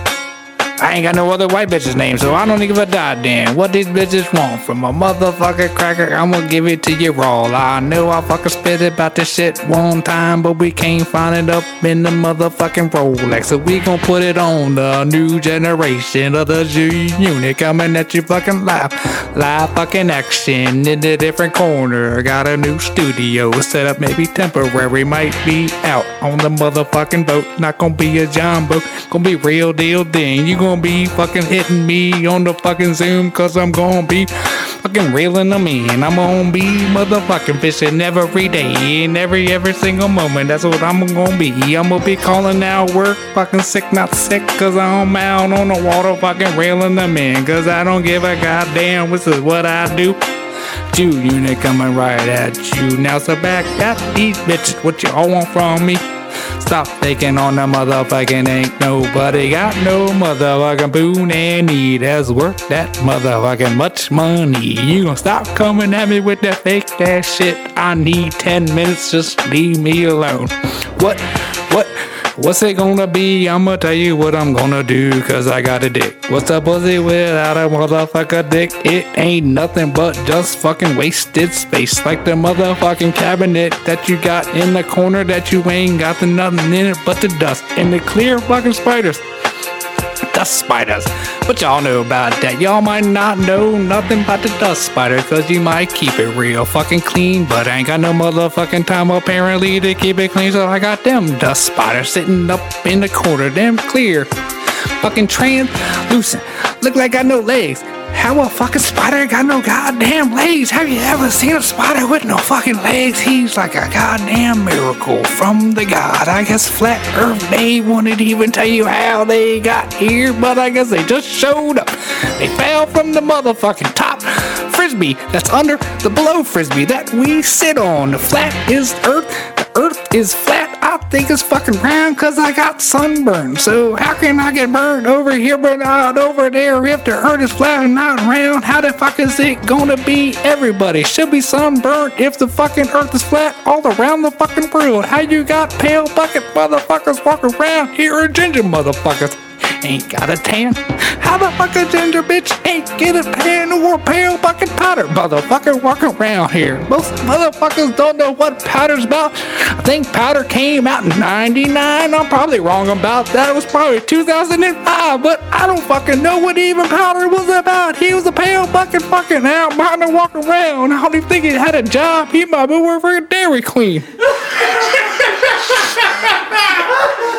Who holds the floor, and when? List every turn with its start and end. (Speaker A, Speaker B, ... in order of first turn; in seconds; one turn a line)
Speaker A: 0.8-50.2
Speaker A: 50.9-89.3
Speaker A: 90.3-104.3
Speaker A: 105.0-175.6